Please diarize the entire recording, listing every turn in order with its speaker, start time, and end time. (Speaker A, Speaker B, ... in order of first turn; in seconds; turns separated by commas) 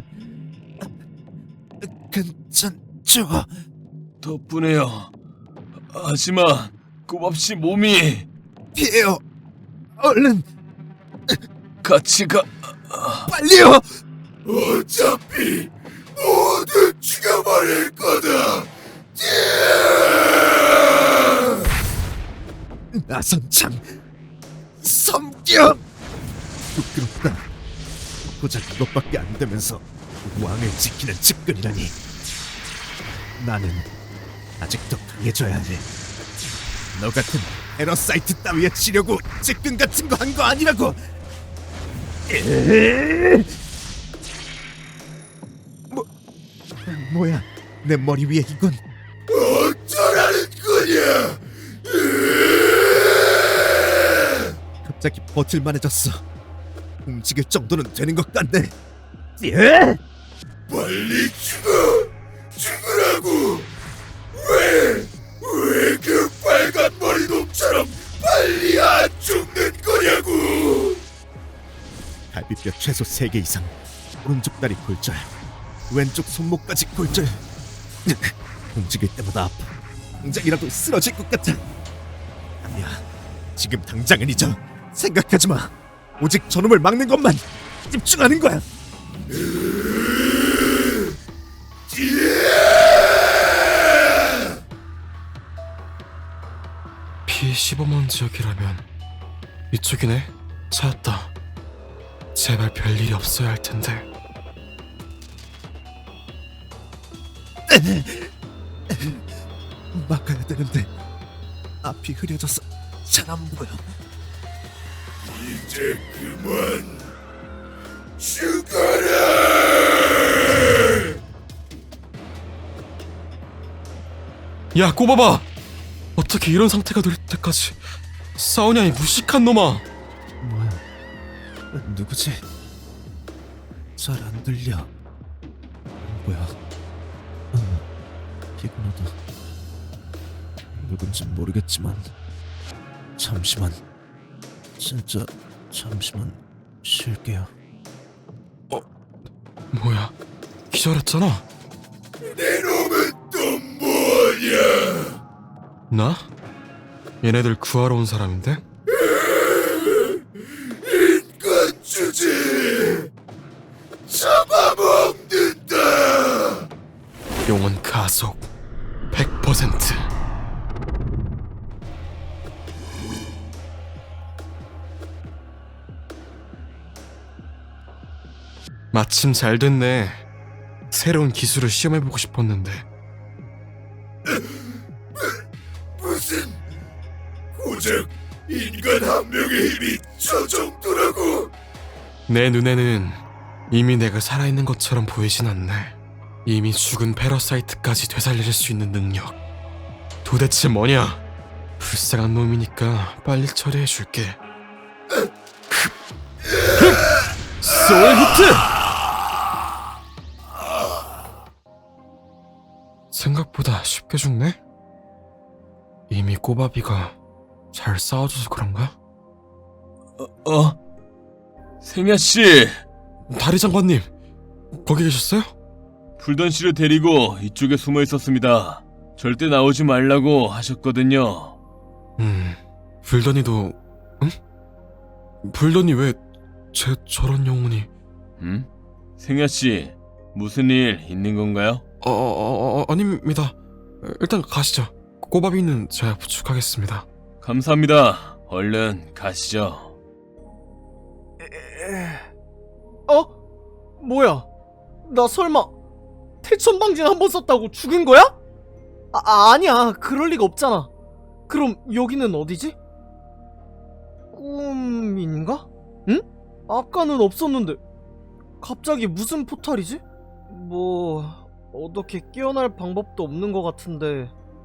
Speaker A: 1.8-3.5, Speaker B: 4.2-5.1, Speaker B: 5.9-8.3, Speaker A: 8.7-9.2, Speaker A: 10.0-10.4, Speaker B: 11.8-13.3, Speaker A: 13.3-13.8, Speaker C: 14.9-15.7, Speaker C: 16.4-18.4, Speaker A: 22.9-23.9, Speaker A: 24.8-25.8, Speaker A: 26.7-27.4, Speaker A: 28.3-31.9, Speaker A: 33.4-33.9, Speaker A: 34.6-35.9, Speaker A: 36.9-41.0, Speaker A: 42.3-43.5, Speaker A: 46.9-48.8, Speaker C: 49.9-51.1, Speaker A: 54.8-56.2, Speaker A: 57.0-58.7, Speaker A: 59.4-60.0, Speaker C: 60.7-61.6, Speaker C: 66.5-67.8, Speaker C: 68.5-70.5, Speaker A: 72.3-75.3, Speaker A: 75.9-77.4, Speaker A: 78.0-81.7, Speaker A: 82.6-83.0, Speaker A: 83.5-88.6, Speaker D: 97.2-98.9, Speaker D: 99.7-101.3, Speaker D: 102.3-104.0, Speaker A: 107.7-108.3, Speaker A: 108.9-109.2, Speaker A: 109.9-110.9, Speaker A: 111.8-113.8, Speaker C: 115.4-116.8, Speaker C: 118.5-119.3, Speaker D: 124.7-125.5, Speaker D: 126.2-127.8, Speaker D: 128.3-129.8, Speaker A: 130.4-130.8, Speaker A: 131.7-132.4, Speaker A: 134.0-134.9, Speaker A: 136.0-136.5, Speaker A: 137.5-137.8, Speaker A: 138.6-139.1, Speaker A: 140.7-142.1, Speaker A: 143.2-143.8, Speaker A: 144.8-147.5, Speaker D: 149.7-150.1, Speaker D: 150.7-151.4, Speaker D: 155.9-156.2, Speaker D: 157.2-158.6, Speaker C: 161.9-162.6, Speaker C: 164.1-164.9, Speaker D: 167.4-168.5, Speaker D: 169.1-170.1, Speaker D: 178.9-180.2, Speaker D: 180.9-182.8, Speaker C: 187.7-191.3, Speaker D: 192.3-199.4, Speaker D: 200.2-201.2, Speaker D: 201.8-204.4, Speaker B: 207.7-208.6, Speaker D: 207.7-208.1, Speaker D: 213.1-214.6, Speaker D: 216.1-217.1, Speaker D: 217.7-218.9, Speaker B: 220.2-220.8, Speaker B: 221.8-222.8, Speaker D: 223.3-224.1, Speaker D: 224.7-225.5, Speaker B: 226.2-231.5, Speaker D: 232.2-234.3, Speaker D: 235.4-236.2, Speaker D: 236.7-237.9, Speaker B: 238.4-238.7, Speaker B: 239.2-241.8, Speaker D: 242.0-247.1, Speaker B: 247.4-249.9, Speaker E: 251.4-252.3, Speaker E: 254.0-254.4, Speaker E: 255.1-255.7, Speaker E: 256.4-258.3, Speaker E: 259.1-260.9, Speaker E: 261.5-262.7, Speaker E: 264.3-267.8, Speaker E: 268.6-274.3